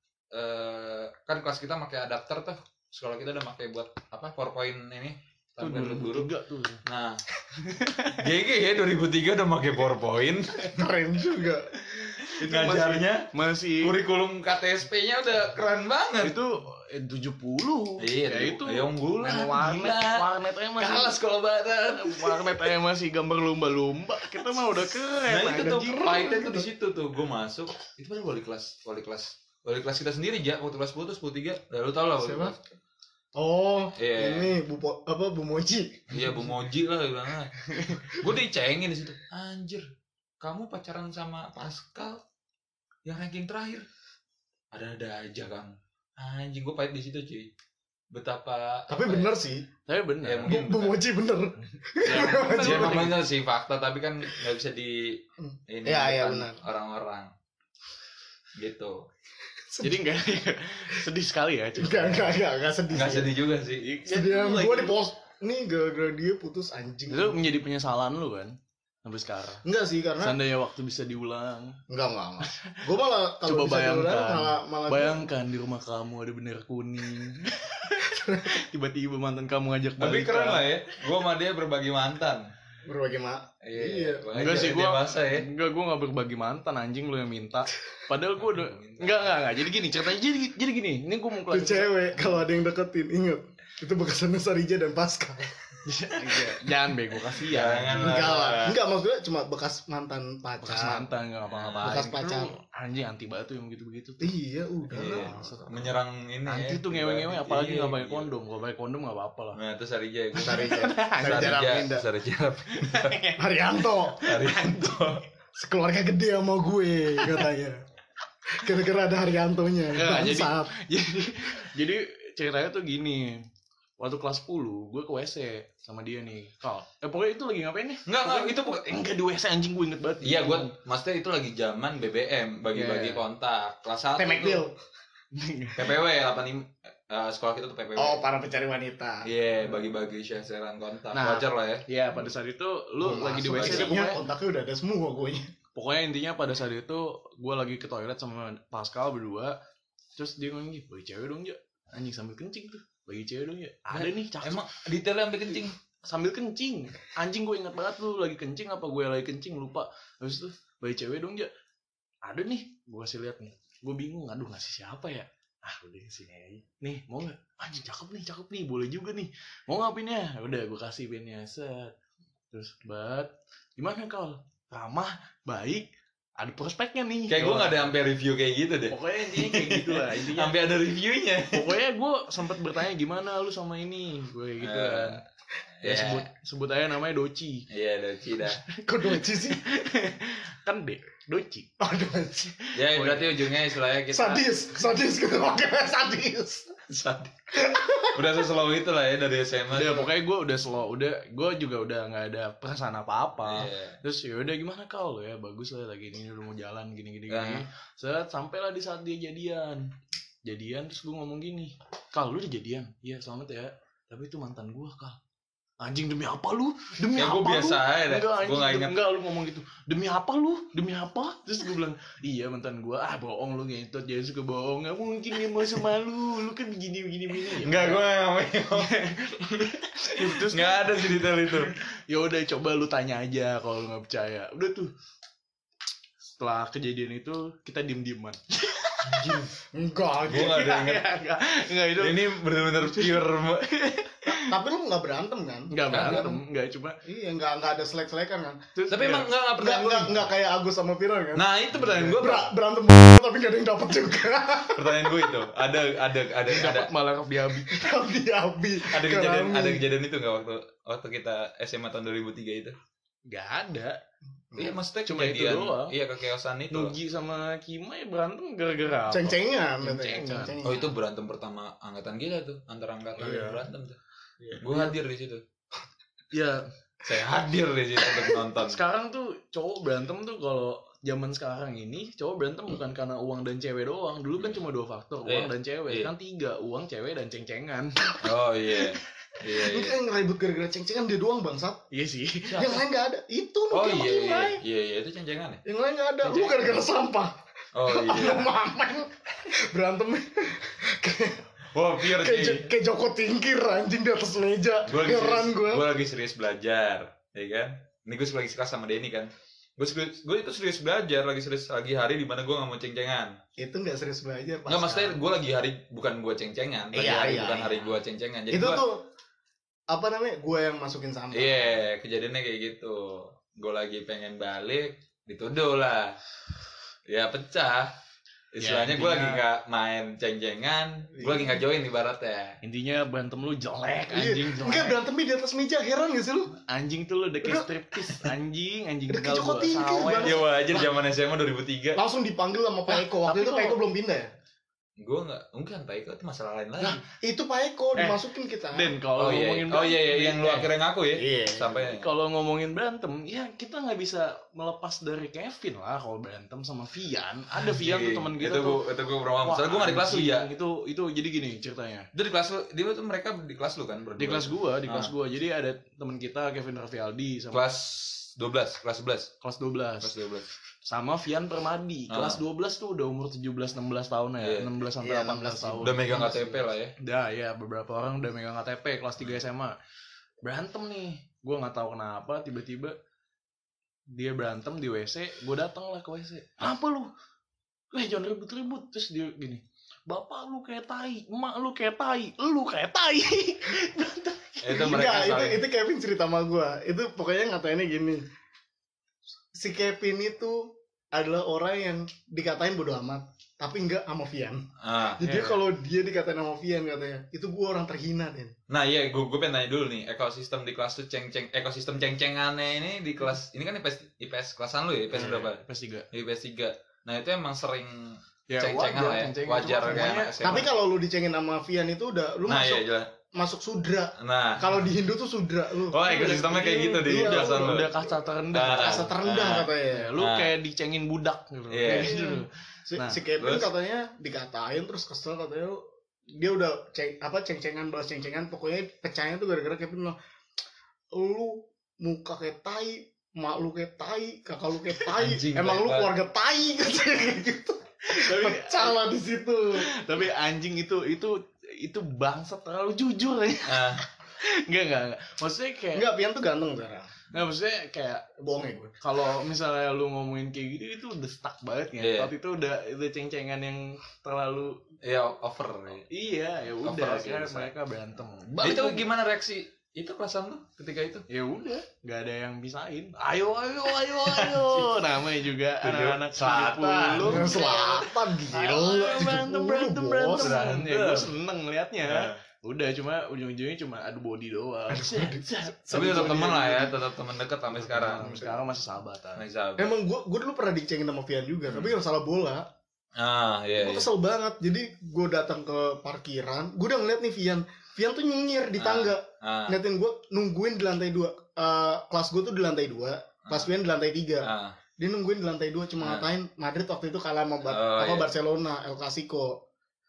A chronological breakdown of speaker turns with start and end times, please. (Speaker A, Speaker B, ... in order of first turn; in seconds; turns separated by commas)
Speaker A: 0.3-6.3, Speaker B: 5.6-6.8, Speaker A: 6.8-7.2, Speaker B: 7.5-8.2, Speaker A: 8.2-10.8, Speaker C: 10.7-11.7, Speaker B: 11.9-13.9, Speaker A: 12.2-13.3, Speaker A: 13.8-16.4, Speaker B: 16.2-26.1, Speaker A: 18.0-20.2, Speaker A: 20.8-22.5, Speaker A: 25.2-32.6, Speaker C: 25.8-26.7, Speaker C: 32.2-32.5, Speaker C: 33.4-36.5, Speaker A: 34.0-34.5, Speaker A: 36.1-39.8, Speaker B: 37.6-38.0, Speaker A: 40.4-42.2, Speaker A: 43.0-43.8, Speaker A: 44.7-47.5, Speaker A: 48.1-49.3, Speaker C: 48.9-49.7, Speaker B: 49.9-50.6, Speaker A: 50.2-51.0, Speaker C: 50.5-53.2, Speaker B: 52.0-53.2, Speaker A: 52.1-57.3, Speaker C: 55.4-56.6, Speaker A: 58.5-59.0, Speaker C: 59.7-60.1, Speaker B: 59.8-62.4, Speaker C: 61.8-63.3, Speaker A: 62.9-63.9, Speaker B: 63.8-65.0, Speaker C: 64.0-67.4, Speaker B: 67.1-69.6, Speaker C: 69.6-70.4, Speaker B: 70.2-71.8, Speaker C: 71.9-75.3, Speaker B: 72.4-72.8, Speaker B: 73.4-80.7, Speaker C: 78.0-78.6, Speaker A: 80.0-82.5, Speaker C: 82.8-84.2, Speaker A: 83.6-85.5, Speaker B: 84.3-92.3, Speaker A: 88.4-89.3, Speaker C: 91.5-95.6, Speaker B: 95.8-98.4, Speaker A: 97.4-98.8, Speaker C: 97.9-101.1, Speaker B: 100.6-104.3, Speaker A: 101.5-102.0, Speaker C: 101.8-102.5, Speaker C: 104.2-105.7, Speaker B: 104.9-105.9, Speaker A: 104.9-108.3, Speaker B: 106.5-109.6, Speaker A: 109.5-113.2, Speaker C: 110.4-112.1, Speaker B: 110.4-111.7, Speaker B: 112.7-113.4, Speaker C: 113.4-114.4, Speaker A: 114.2-115.2, Speaker B: 114.2-115.0, Speaker C: 115.5-117.8, Speaker C: 118.5-120.7, Speaker B: 119.9-123.4, Speaker B: 124.0-130.7, Speaker A: 128.1-128.9, Speaker A: 130.2-134.6, Speaker B: 132.7-133.2, Speaker C: 134.2-134.8, Speaker B: 135.3-135.9, Speaker A: 135.8-138.2, Speaker C: 137.9-139.3, Speaker A: 139.2-141.8, Speaker B: 141.1-144.2, Speaker C: 143.0-145.5, Speaker A: 143.4-144.1, Speaker B: 145.7-149.6, Speaker B: 150.2-154.6, Speaker A: 153.9-155.8, Speaker B: 156.0-161.5, Speaker B: 162.2-171.9, Speaker B: 172.5-177.9, Speaker A: 177.3-181.7, Speaker B: 178.9-180.6, Speaker B: 181.5-185.2, Speaker A: 184.6-185.2, Speaker A: 185.8-186.2, Speaker B: 185.8-187.7, Speaker A: 187.7-188.6, Speaker B: 188.5-191.7, Speaker C: 188.8-189.6, Speaker C: 191.8-192.6, Speaker A: 192.8-194.4, Speaker B: 192.8-193.4, Speaker C: 194.1-196.7, Speaker A: 196.9-197.6, Speaker C: 197.5-198.4, Speaker A: 198.1-200.1, Speaker B: 199.7-209.9, Speaker A: 203.4-204.0, Speaker A: 207.3-207.6, Speaker B: 210.4-215.2, Speaker B: 215.8-228.0, Speaker A: 217.1-218.9, Speaker A: 227.5-229.1, Speaker B: 228.8-234.9, Speaker A: 230.2-231.7, Speaker B: 236.2-239.5, Speaker A: 239.1-239.5, Speaker C: 239.7-240.6, Speaker A: 240.2-241.1, Speaker B: 240.3-244.5, Speaker A: 241.9-243.7, Speaker C: 244.3-246.3, Speaker B: 245.7-247.0, Speaker A: 245.9-246.4, Speaker C: 247.0-248.6, Speaker B: 248.7-249.3, Speaker A: 248.9-250.3, Speaker C: 249.6-255.3, Speaker A: 251.3-252.5, Speaker B: 251.7-252.2, Speaker A: 254.7-256.9, Speaker B: 256.5-257.9, Speaker C: 257.6-259.8, Speaker A: 258.9-262.8, Speaker B: 263.3-264.0, Speaker C: 264.5-264.8, Speaker A: 264.6-266.9, Speaker B: 265.0-265.9, Speaker B: 266.7-270.6, Speaker C: 269.1-270.9, Speaker A: 270.6-274.0, Speaker B: 273.2-273.6, Speaker B: 274.5-274.9, Speaker A: 274.6-275.4, Speaker B: 276.3-276.6, Speaker A: 277.0-278.8, Speaker B: 278.6-288.1, Speaker A: 285.2-286.1, Speaker A: 288.2-290.0, Speaker C: 289.4-291.8, Speaker B: 291.9-292.7, Speaker A: 292.5-292.8, Speaker C: 292.6-294.6, Speaker A: 293.7-295.6, Speaker C: 295.6-305.9, Speaker A: 296.2-296.7, Speaker A: 297.7-298.5, Speaker A: 301.7-302.7, Speaker A: 304.9-313.4, Speaker C: 313.6-315.2, Speaker A: 314.7-318.8, Speaker C: 316.9-317.9, Speaker C: 318.5-319.1, Speaker C: 319.9-321.7, Speaker A: 321.3-326.2, Speaker A: 327.1-327.9, Speaker A: 328.5-332.6, Speaker B: 328.6-329.4, Speaker C: 331.2-331.6, Speaker B: 332.6-335.0, Speaker C: 334.1-336.5, Speaker B: 336.7-340.4, Speaker C: 337.4-338.3, Speaker C: 339.1-340.9, Speaker A: 340.2-342.0, Speaker C: 341.9-344.3, Speaker B: 342.9-343.8, Speaker A: 345.0-347.0, Speaker C: 347.2-348.9, Speaker B: 347.9-348.2, Speaker B: 348.7-350.7, Speaker A: 349.2-352.1, Speaker C: 351.1-351.9, Speaker B: 351.9-358.8, Speaker A: 357.6-360.5, Speaker B: 359.4-362.1, Speaker A: 362.1-365.1, Speaker B: 364.2-367.6, Speaker A: 367.5-369.3, Speaker B: 369.4-370.1, Speaker A: 370.0-370.5, Speaker B: 370.9-379.8, Speaker A: 372.1-372.4, Speaker A: 374.4-374.7, Speaker C: 375.0-376.5, Speaker A: 375.8-376.9, Speaker B: 380.4-382.9, Speaker B: 384.1-387.1, Speaker B: 387.9-394.9, Speaker A: 394.6-395.6, Speaker C: 394.7-398.2, Speaker C: 399.5-404.7, Speaker A: 404.8-405.2, Speaker C: 405.2-408.5, Speaker B: 405.2-405.6, Speaker A: 408.7-420.7, Speaker B: 415.1-416.1, Speaker B: 418.5-420.7, Speaker C: 420.4-430.1, Speaker A: 422.5-423.1, Speaker A: 424.2-424.7, Speaker A: 425.9-427.9, Speaker B: 426.0-429.1, Speaker A: 428.5-430.6, Speaker B: 429.9-433.2, Speaker A: 431.7-432.2, Speaker C: 431.9-440.2, Speaker A: 433.4-433.6, Speaker C: 441.1-449.8, Speaker A: 445.1-446.1, Speaker B: 448.1-449.0, Speaker B: 449.8-456.1, Speaker A: 453.6-454.0, Speaker C: 455.9-457.1, Speaker B: 457.3-458.3, Speaker C: 458.4-458.9, Speaker B: 459.0-464.8, Speaker A: 462.0-462.3, Speaker A: 465.0-466.1, Speaker B: 466.1-469.1, Speaker A: 466.8-467.7, Speaker A: 468.6-471.2, Speaker B: 471.3-486.9, Speaker A: 474.2-474.9, Speaker A: 475.8-477.6, Speaker C: 477.2-480.6, Speaker A: 480.4-481.3, Speaker A: 482.0-482.4, Speaker C: 484.9-486.9, Speaker A: 485.9-488.4, Speaker B: 487.7-489.4, Speaker C: 488.1-488.6, Speaker A: 489.4-489.9, Speaker C: 489.8-492.6, Speaker A: 491.7-491.9, Speaker A: 493.1-494.1, Speaker C: 493.8-509.6, Speaker A: 498.8-499.8, Speaker A: 503.5-503.7, Speaker A: 504.4-504.8, Speaker A: 506.0-506.3, Speaker A: 507.7-508.3